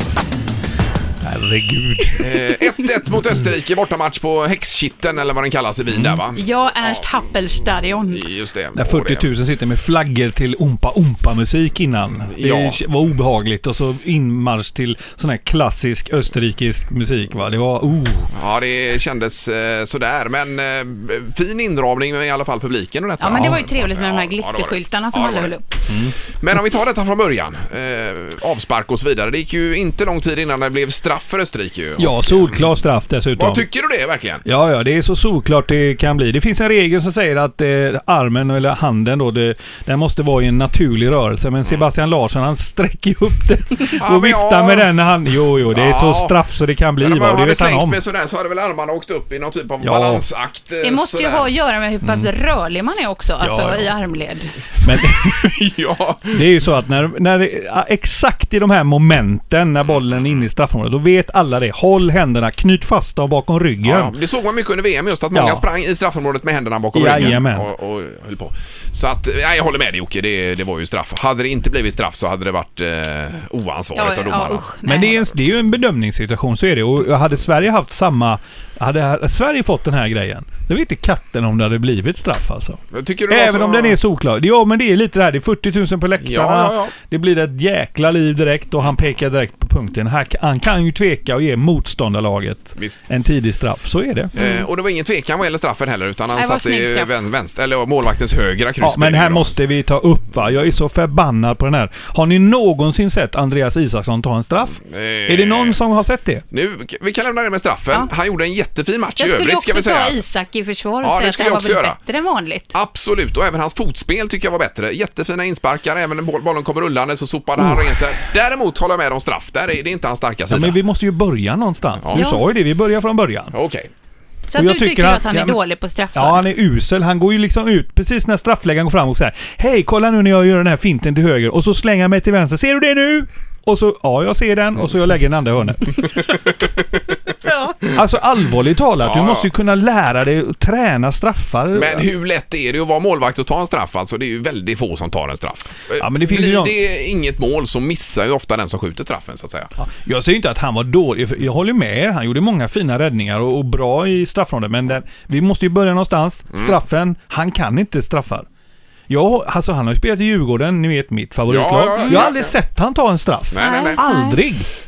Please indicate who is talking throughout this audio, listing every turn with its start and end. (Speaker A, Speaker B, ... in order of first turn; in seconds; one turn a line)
Speaker A: 1.2-2.3
Speaker B: 2.2-6.4
Speaker C: 6.4-8.2
Speaker B: 8.1-9.3
Speaker A: 8.8-18.3
Speaker B: 12.3-12.8
Speaker B: 18.3-25.6
Speaker C: 23.2-25.7
Speaker A: 23.3-23.6
Speaker A: 25.9-26.1
Speaker B: 26.4-32.6
Speaker A: 32.0-33.7
Speaker B: 33.4-34.4
Speaker A: 34.5-48.0
Speaker B: 43.9-44.9
Speaker B: 45.7-46.4
Speaker B: 47.0-51.5
Speaker A: 49.8-50.3
Speaker C: 50.8-54.5
Speaker A: 52.0-52.3
Speaker A: 53.4-53.9
Speaker A: 54.8-55.5
Speaker B: 55.0-56.5
Speaker A: 56.3-64.1
Speaker B: 59.9-60.4
Speaker B: 63.8-74.7
Speaker A: 65.3-65.6
Speaker A: 66.9-67.7
Speaker C: 74.0-75.3
Speaker A: 74.9-94.3
Speaker B: 82.9-84.0
Speaker B: 86.2-86.9
Speaker B: 92.8-93.1
Speaker B: 94.3-99.5
Speaker C: 94.4-94.7
Speaker C: 96.3-97.1
Speaker A: 98.8-106.4
Speaker B: 104.8-105.8
Speaker B: 106.5-110.2
Speaker C: 109.2-112.8
Speaker B: 111.0-112.0
Speaker B: 112.7-120.8
Speaker A: 117.6-118.0
Speaker A: 120.5-123.5
Speaker B: 122.0-122.2
Speaker C: 122.1-122.4
Speaker B: 123.5-123.9
Speaker C: 124.5-126.4
Speaker A: 124.5-125.6
Speaker A: 126.1-136.2
Speaker C: 137.4-137.8
Speaker A: 137.9-142.1
Speaker B: 139.0-139.5
Speaker B: 141.7-149.7
Speaker A: 146.0-146.8
Speaker A: 149.8-158.5
Speaker A: 159.1-164.7
Speaker B: 161.5-162.6
Speaker C: 162.0-162.2
Speaker B: 163.5-164.0
Speaker C: 163.6-164.4